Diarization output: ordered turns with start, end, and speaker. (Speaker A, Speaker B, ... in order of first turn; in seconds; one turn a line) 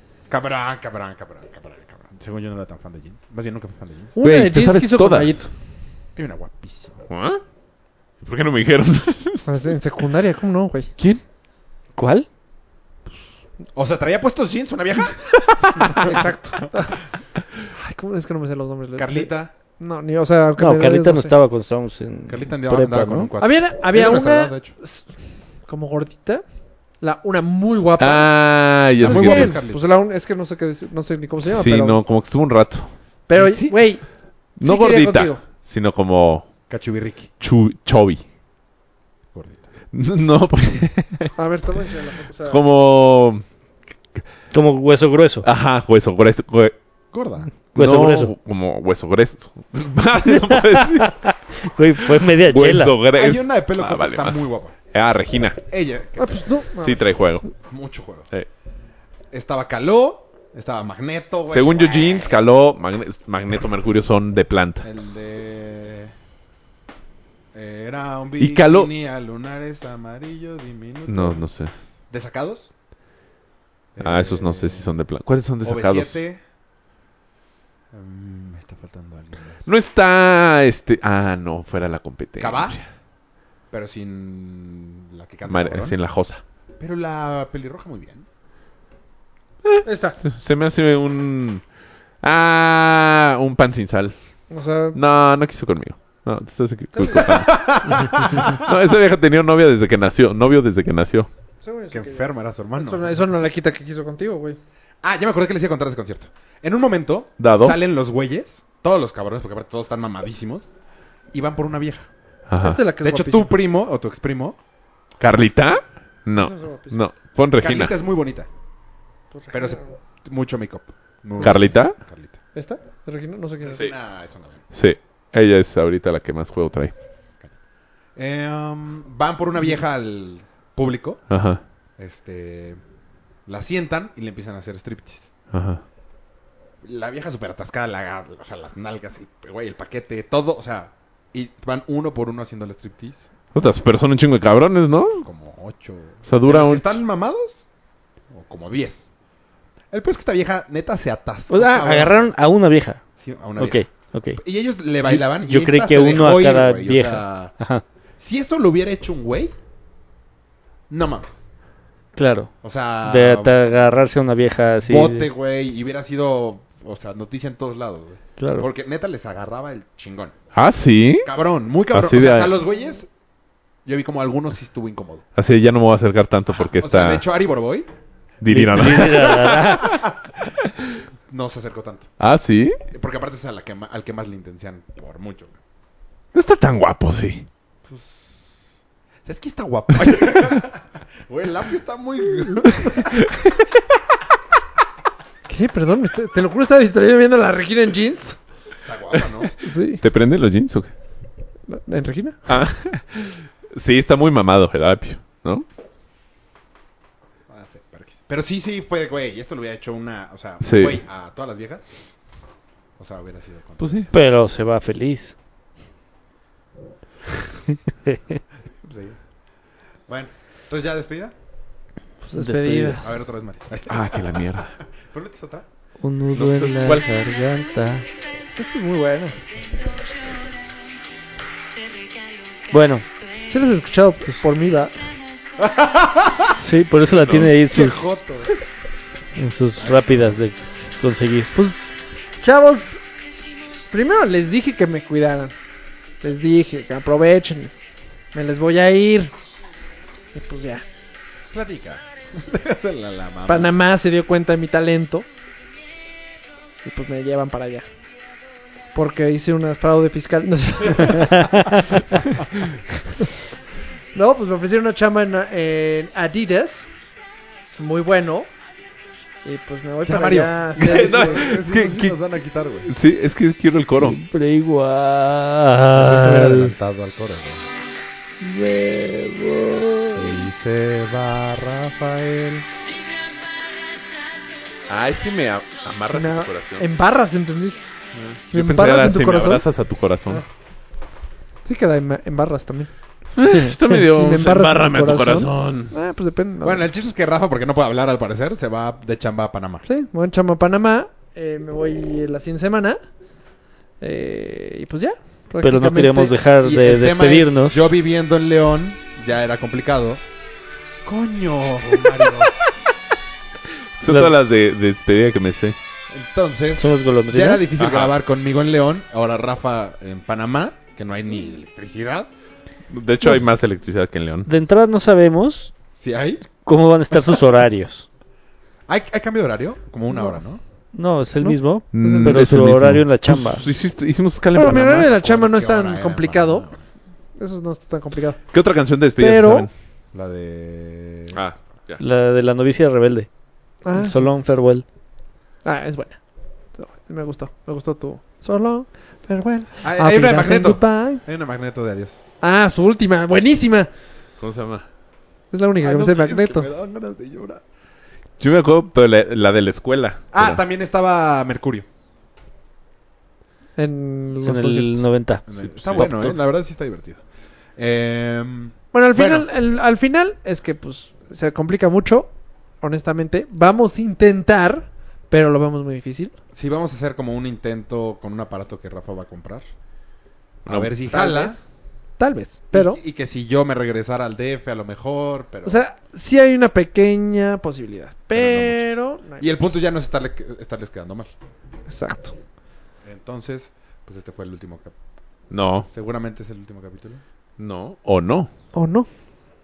Speaker A: 0.3-4.2
Speaker B: 4.1-5.5
Speaker C: 4.2-5.5
Speaker A: 6.2-7.0
Speaker C: 7.1-7.4
Speaker C: 8.2-9.4
Speaker B: 9.4-10.9
Speaker D: 11.9-12.3
Speaker A: 13.7-16.9
Speaker C: 15.4-16.0
Speaker B: 16.0-17.0
Speaker B: 17.7-21.3
Speaker A: 18.9-19.5
Speaker D: 20.6-23.3
Speaker A: 22.3-24.7
Speaker B: 23.4-26.4
Speaker B: 27.0-32.0
Speaker C: 28.0-29.6
Speaker A: 29.0-29.9
Speaker C: 31.4-32.9
Speaker B: 33.3-35.4
Speaker A: 33.4-33.7
Speaker C: 34.6-36.5
Speaker A: 36.7-37.3
Speaker C: 37.4-38.2
Speaker A: 39.3-39.7
Speaker C: 39.9-41.3
Speaker B: 41.4-42.6
Speaker C: 42.4-43.4
Speaker D: 44.5-45.5
Speaker C: 45.4-46.8
Speaker A: 47.1-47.5
Speaker C: 47.7-51.2
Speaker D: 47.7-48.3
Speaker D: 50.3-53.0
Speaker C: 52.1-55.6
Speaker A: 53.1-54.8
Speaker A: 55.7-56.5
Speaker B: 56.2-57.0
Speaker C: 56.8-57.5
Speaker A: 57.7-58.3
Speaker A: 59.3-62.3
Speaker C: 61.5-64.8
Speaker A: 64.8-66.1
Speaker A: 67.5-71.4
Speaker C: 68.4-68.9
Speaker C: 71.1-71.7
Speaker A: 72.1-72.7
Speaker A: 73.9-74.9
Speaker C: 74.0-76.2
Speaker A: 75.6-76.4
Speaker A: 77.9-79.7
Speaker C: 79.6-82.9
Speaker A: 82.4-82.8
Speaker A: 83.7-86.0
Speaker C: 85.5-86.4
Speaker A: 86.8-88.2
Speaker C: 89.7-91.6
Speaker B: 89.8-90.2
Speaker C: 92.2-94.1
Speaker B: 94.5-95.0
Speaker C: 94.9-101.3
Speaker B: 96.9-97.5
Speaker A: 97.0-98.8
Speaker B: 101.6-104.6
Speaker A: 101.9-103.2
Speaker A: 105.0-110.7
Speaker C: 107.4-107.8
Speaker A: 111.3-112.1
Speaker C: 112.5-112.8
Speaker B: 112.6-113.5
Speaker A: 113.0-114.6
Speaker C: 115.2-117.9
Speaker B: 116.4-117.0
Speaker A: 117.6-118.5
Speaker B: 119.3-119.9
Speaker A: 119.5-122.4
Speaker C: 121.4-122.0
Speaker B: 122.5-123.8
Speaker A: 123.6-124.6
Speaker C: 124.7-126.9
Speaker A: 128.2-131.3
Speaker C: 131.3-131.6
Speaker A: 132.0-132.8
Speaker A: 133.5-135.3
Speaker C: 135.5-135.8
Speaker A: 136.8-143.3
Speaker C: 143.5-145.2
Speaker A: 145.2-147.6
Speaker C: 146.2-147.0
Speaker A: 148.3-149.1
Speaker A: 149.9-152.3
Speaker D: 151.5-153.0
Speaker A: 153.2-153.8
Speaker D: 153.6-154.4
Speaker A: 154.4-157.5
Speaker D: 155.0-157.8
Speaker A: 158.2-159.5
Speaker A: 160.9-161.3
Speaker D: 162.2-162.5
Speaker A: 162.6-163.5
Speaker D: 163.0-165.3
Speaker A: 164.8-170.3
Speaker D: 168.4-168.7
Speaker C: 170.5-171.3
Speaker A: 171.2-173.1
Speaker C: 171.9-172.5
Speaker A: 173.8-175.2
Speaker C: 175.3-177.2
Speaker A: 176.5-177.9
Speaker C: 178.4-179.6
Speaker D: 178.5-180.0
Speaker A: 179.0-180.2
Speaker A: 181.3-182.1
Speaker C: 182.2-182.8
Speaker A: 182.9-185.5
Speaker C: 186.3-187.5
Speaker A: 187.8-188.2
Speaker A: 189.2-193.2
Speaker C: 193.2-193.6
Speaker B: 195.5-198.4
Speaker A: 198.8-199.5
Speaker C: 199.1-199.5
Speaker B: 199.6-200.0
Speaker C: 200.0-200.9
Speaker B: 201.7-202.4
Speaker C: 202.5-205.6
Speaker A: 207.5-211.8
Speaker C: 210.6-211.0
Speaker A: 213.0-214.1
Speaker C: 213.8-214.1
Speaker D: 214.1-215.3
Speaker A: 218.8-219.2
Speaker A: 220.1-221.3
Speaker B: 222.2-223.1
Speaker D: 222.3-223.0
Speaker A: 223.0-225.6
Speaker C: 223.9-224.8
Speaker D: 226.0-228.1
Speaker C: 226.3-227.1
Speaker B: 228.5-229.4
Speaker D: 232.7-233.0
Speaker B: 233.5-235.1
Speaker A: 235.6-236.5
Speaker D: 236.6-238.0
Speaker C: 237.2-237.5
Speaker A: 237.7-238.5
Speaker D: 239.4-241.5
Speaker B: 241.5-243.0
Speaker B: 243.9-245.5
Speaker B: 246.2-247.7
Speaker B: 248.3-249.3
Speaker B: 250.3-250.8
Speaker A: 251.5-253.8
Speaker B: 253.5-255.3
Speaker B: 256.8-257.9
Speaker B: 258.9-261.7
Speaker B: 264.1-266.9
Speaker B: 267.8-268.5
Speaker B: 269.4-271.6
Speaker A: 270.0-272.9
Speaker C: 270.8-272.2
Speaker C: 272.8-274.2
Speaker D: 273.9-276.7
Speaker A: 275.9-277.6
Speaker D: 278.4-280.4
Speaker A: 280.1-282.6
Speaker C: 284.9-286.8
Speaker B: 286.1-287.8
Speaker C: 288.1-290.4
Speaker B: 288.5-289.6
Speaker B: 291.6-292.9
Speaker C: 293.4-295.9
Speaker B: 293.9-296.8
Speaker A: 296.6-299.8
Speaker B: 299.8-303.0
Speaker B: 304.0-306.4
Speaker D: 305.6-307.9
Speaker A: 306.6-310.2
Speaker A: 311.0-312.5
Speaker C: 312.1-312.5
Speaker C: 314.0-315.8
Speaker D: 314.1-314.3
Speaker A: 316.1-322.3
Speaker D: 316.8-317.7
Speaker C: 317.8-318.1
Speaker C: 322.9-324.5
Speaker D: 324.5-325.7
Speaker A: 326.0-326.4
Speaker D: 326.6-328.1
Speaker A: 328.9-330.6
Speaker D: 330.9-333.6
Speaker B: 331.4-332.4
Speaker C: 331.9-335.1
Speaker B: 334.5-336.6
Speaker A: 334.9-336.8
Speaker B: 337.4-338.4
Speaker C: 338.5-339.7
Speaker B: 339.2-339.7
Speaker A: 340.1-341.4
Speaker C: 341.3-342.0
Speaker D: 342.0-343.3
Speaker B: 343.8-344.3
Speaker D: 343.9-344.8
Speaker B: 345.6-346.2
Speaker B: 346.8-351.2
Speaker A: 349.8-352.2
Speaker B: 352.4-353.9
Speaker C: 354.4-354.8
Speaker B: 355.5-356.7
Speaker A: 355.8-357.6
Speaker C: 358.4-360.6
Speaker A: 360.3-361.9
Speaker B: 363.8-365.1
Speaker D: 364.4-366.4
Speaker A: 365.5-367.2
Speaker C: 365.5-366.1
Speaker A: 367.8-369.5
Speaker B: 368.9-376.3
Speaker A: 376.5-379.6
Speaker A: 380.6-381.6
Speaker C: 380.6-380.9
Speaker B: 381.1-383.0
Speaker A: 382.7-385.8
Speaker B: 385.6-389.5
Speaker A: 388.3-391.3
Speaker B: 391.9-392.3
Speaker A: 393.0-394.9
Speaker C: 395.5-395.9
Speaker A: 395.9-397.2
Speaker C: 397.6-398.5
Speaker B: 398.7-399.1